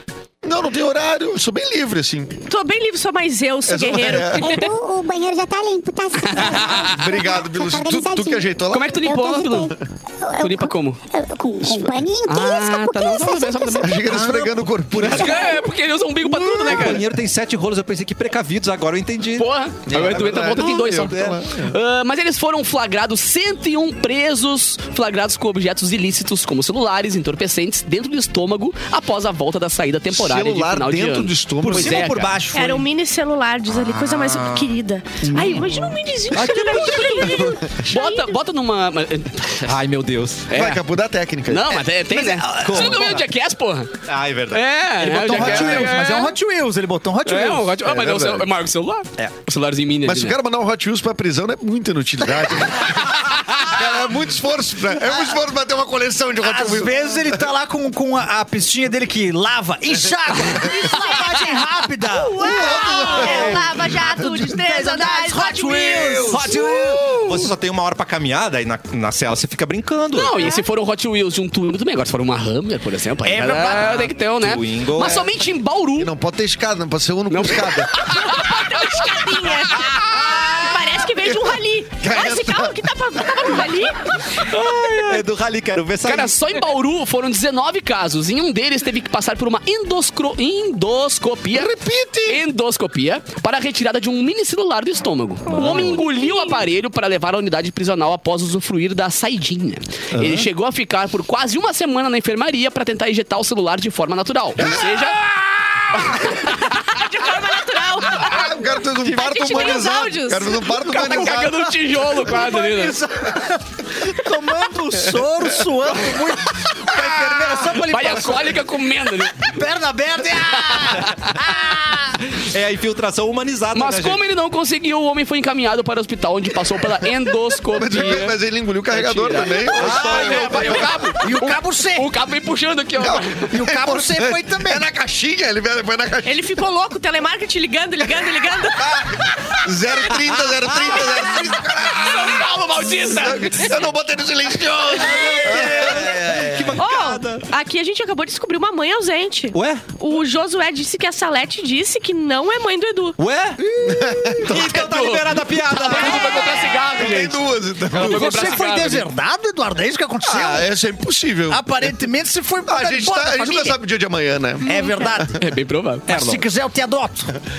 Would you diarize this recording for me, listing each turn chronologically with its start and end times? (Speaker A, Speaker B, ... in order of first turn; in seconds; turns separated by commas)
Speaker A: 0.4-2.4, Speaker B: 2.5-4.7, Speaker A: 3.7-4.6, Speaker C: 4.4-14.0, Speaker D: 6.3-6.9, Speaker A: 6.4-9.0, Speaker D: 8.7-9.7, Speaker D: 10.4-11.0, Speaker D: 12.3-14.2, Speaker A: 13.8-15.6, Speaker E: 14.1-15.3, Speaker D: 15.0-17.1, Speaker E: 16.2-21.4, Speaker D: 19.4-32.4, Speaker A: 19.9-21.8, Speaker A: 30.1-32.1, Speaker F: 31.6-32.9, Speaker B: 32.5-38.3, Speaker E: 33.7-34.7, Speaker F: 35.2-35.9, Speaker E: 36.4-37.1, Speaker D: 36.6-39.8, Speaker A: 37.2-37.8, Speaker E: 39.6-40.5, Speaker D: 40.5-40.8, Speaker A: 40.5-41.9, Speaker D: 41.5-44.0, Speaker F: 42.1-43.2, Speaker E: 42.6-43.2, Speaker E: 44.1-46.0, Speaker D: 44.5-46.3, Speaker F: 45.0-47.7, Speaker D: 47.3-50.4, Speaker A: 47.9-48.5, Speaker A: 50.0-57.2, Speaker F: 56.4-67.2, Speaker A: 62.3-63.8, Speaker B: 62.4-66.6, Speaker E: 63.2-63.6, Speaker A: 66.3-67.2, Speaker E: 66.3-70.5, Speaker D: 70.1-76.1, Speaker B: 70.4-70.6, Speaker F: 73.2-74.1, Speaker E: 74.4-75.3, Speaker A: 76.0-78.3, Speaker D: 77.3-80.5, Speaker B: 78.2-84.3, Speaker A: 82.0-82.9, Speaker D: 84.4-85.2, Speaker E: 85.0-86.3, Speaker D: 86.0-91.7, Speaker A: 91.5-92.4, Speaker D: 92.3-106.6, Speaker E: 95.5-96.0, Speaker B: 95.6-96.6, Speaker E: 100.1-100.5, Speaker B: 106.5-110.8, Speaker A: 108.1-111.7, Speaker D: 110.7-113.0, Speaker F: 111.0-111.5, Speaker F: 112.2-118.7, Speaker D: 116.9-119.5, Speaker F: 119.3-122.2, Speaker D: 120.6-121.3, Speaker E: 122.3-124.2, Speaker D: 123.7-128.4, Speaker A: 127.7-131.1, Speaker D: 128.9-133.5, Speaker E: 129.8-130.9, Speaker F: 131.2-132.1, Speaker A: 133.0-136.5, Speaker F: 133.5-134.8, Speaker B: 136.2-139.2, Speaker A: 138.8-142.5, Speaker E: 140.5-140.9, Speaker D: 141.7-143.8, Speaker A: 143.0-146.4, Speaker E: 145.0-147.5, Speaker F: 145.5-146.7, Speaker B: 146.8-153.2, Speaker E: 149.5-149.8, Speaker E: 153.2-156.7, Speaker A: 153.8-154.8, Speaker D: 154.4-159.1, Speaker B: 155.9-156.9, Speaker A: 156.1-158.6, Speaker F: 157.9-160.7, Speaker A: 160.2-161.9, Speaker F: 161.5-163.8, Speaker A: 162.7-165.4, Speaker F: 164.6-165.4, Speaker B: 164.7-165.1, Speaker D: 165.4-166.2, Speaker F: 166.1-167.3